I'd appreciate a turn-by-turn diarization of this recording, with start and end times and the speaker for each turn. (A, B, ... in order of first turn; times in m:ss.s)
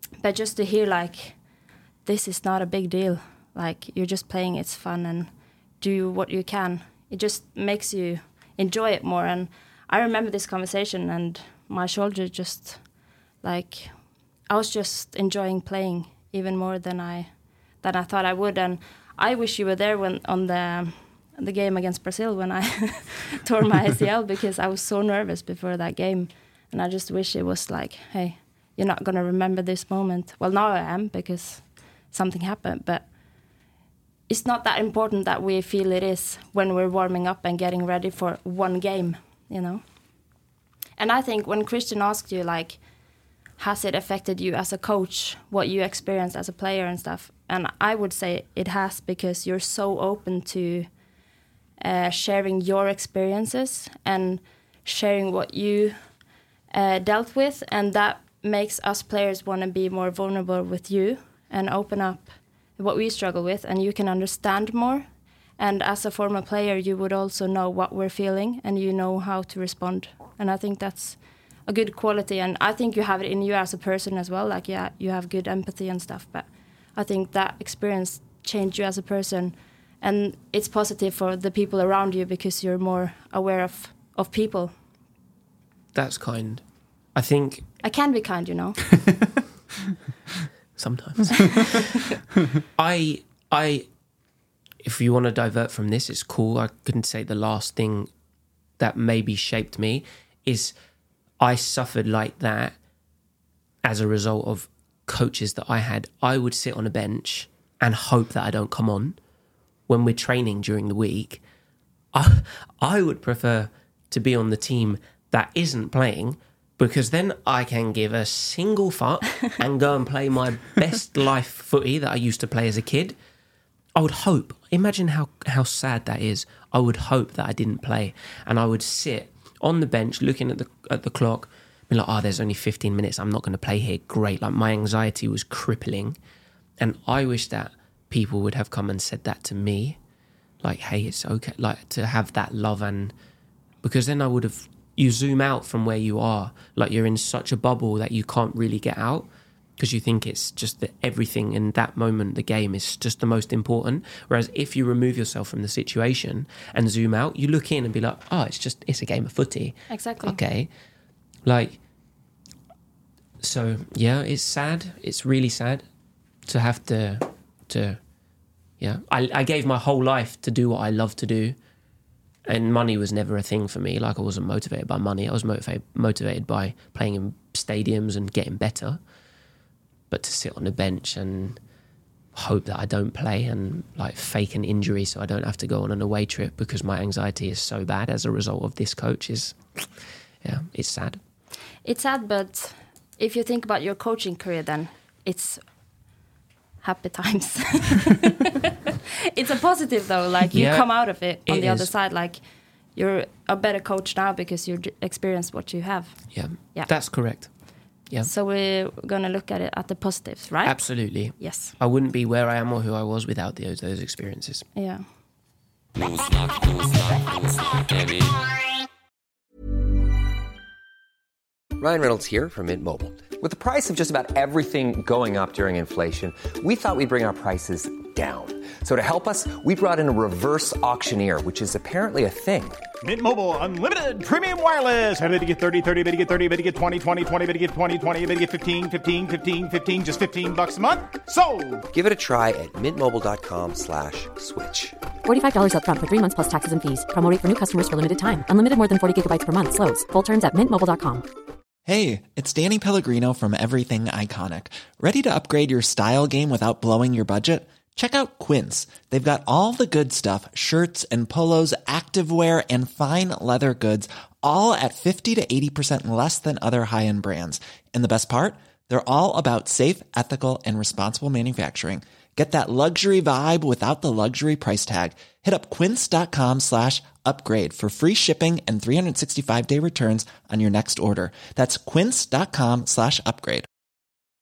0:00.2-0:01.4 A
0:02.0-0:12.8 A
0:13.4-0:33.1 A
0:34.3-0:39.8 A
0:41.0-0:42.8 A
0:43.6-0:50.9 A
0:51.8-0:56.0 A
0:56.7-1:05.1 A
1:05.6-1:24.7 A
1:25.9-1:26.6 B
1:27.1-1:27.7 B
1:27.8-1:29.0 A
1:30.8-1:31.8 B
1:32.8-1:33.9 B
1:34.8-1:38.1 B
1:38.8-1:40.7 B
1:41.4-1:42.8 B
1:43.8-1:49.2 B
1:49.9-1:51.4 B
1:52.1-2:03.2 B
2:03.9-2:16.2 B
2:16.8-2:20.0 B
2:20.6-2:23.1 B
2:23.8-2:40.7 B
2:39.9-2:40.4 A
2:41.4-2:41.8 B
2:43.4-2:45.8 B
2:46.4-2:48.0 B
2:48.8-2:51.6 B
2:52.4-2:59.0 B
3:00.1-3:01.6 B
3:02.3-3:11.2 B
3:11.8-3:15.6 A
3:16.8-3:18.5 A
3:19.3-3:22.4 A
3:20.5-3:21.9 B
3:22.9-3:26.9 A
3:26.3-3:27.5 B
3:28.2-3:31.7 A
3:30.6-3:34.7 B
3:34.7-3:35.0 A
3:41.8-3:52.8 C
3:53.0-4:01.8 D
4:01.9-4:05.0 C
4:05.2-4:11.3 E
4:11.8-4:43.7 F